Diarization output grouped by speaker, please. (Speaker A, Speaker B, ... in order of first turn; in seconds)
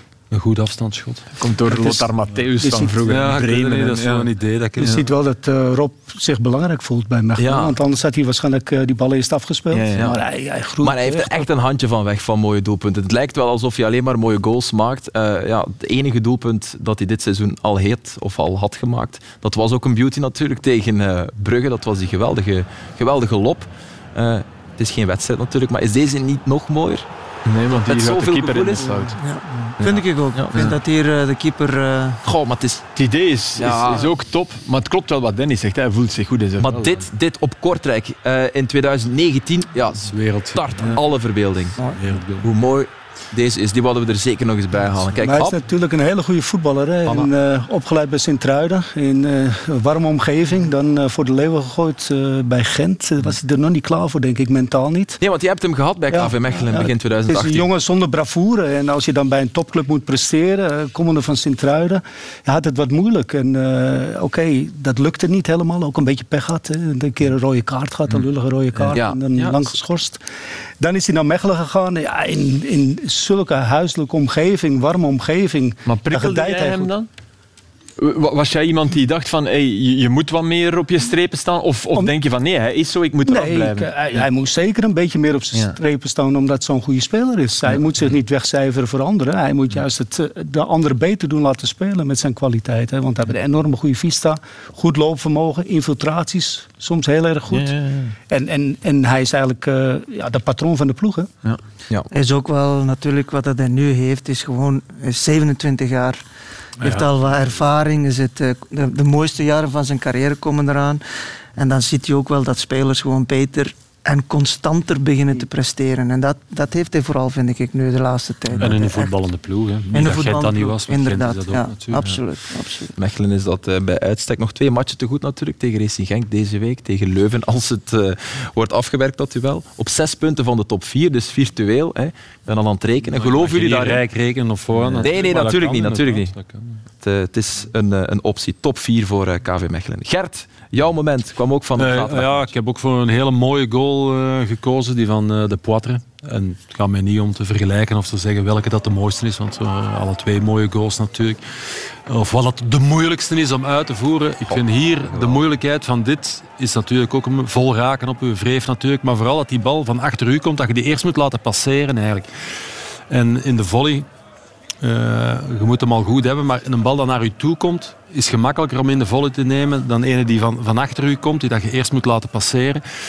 Speaker A: 0.3-1.3, 3.0-5.0, 40.0-40.6, 41.9-42.5, 118.6-122.0, 133.1-136.8, 141.8-162.3, 163.1-164.1, 164.8-172.8
Speaker B: 1.4-5.0, 9.7-10.1, 27.4-29.2, 33.0-36.9, 68.1-68.9, 75.8-77.1, 78.0-84.3, 85.5-85.8, 97.5-98.1
Speaker C: 1.7-2.1, 2.6-3.1, 4.8-11.5, 45.2-55.2, 56.1-70.2, 70.8-76.9, 83.2-97.8, 98.3-101.3
Speaker D: 7.4-7.8, 10.8-27.1, 27.8-28.9, 29.8-30.7, 32.2-32.9, 33.5-34.1, 36.6-41.8, 42.4-45.5, 55.2-57.7, 68.9-69.7, 122.9-134.0, 134.9-136.3, 137.0-142.5, 154.5-155.4
Speaker E: 29.2-32.2, 102.1-106.2, 106.8-111.0, 111.5-119.2, 119.9-122.9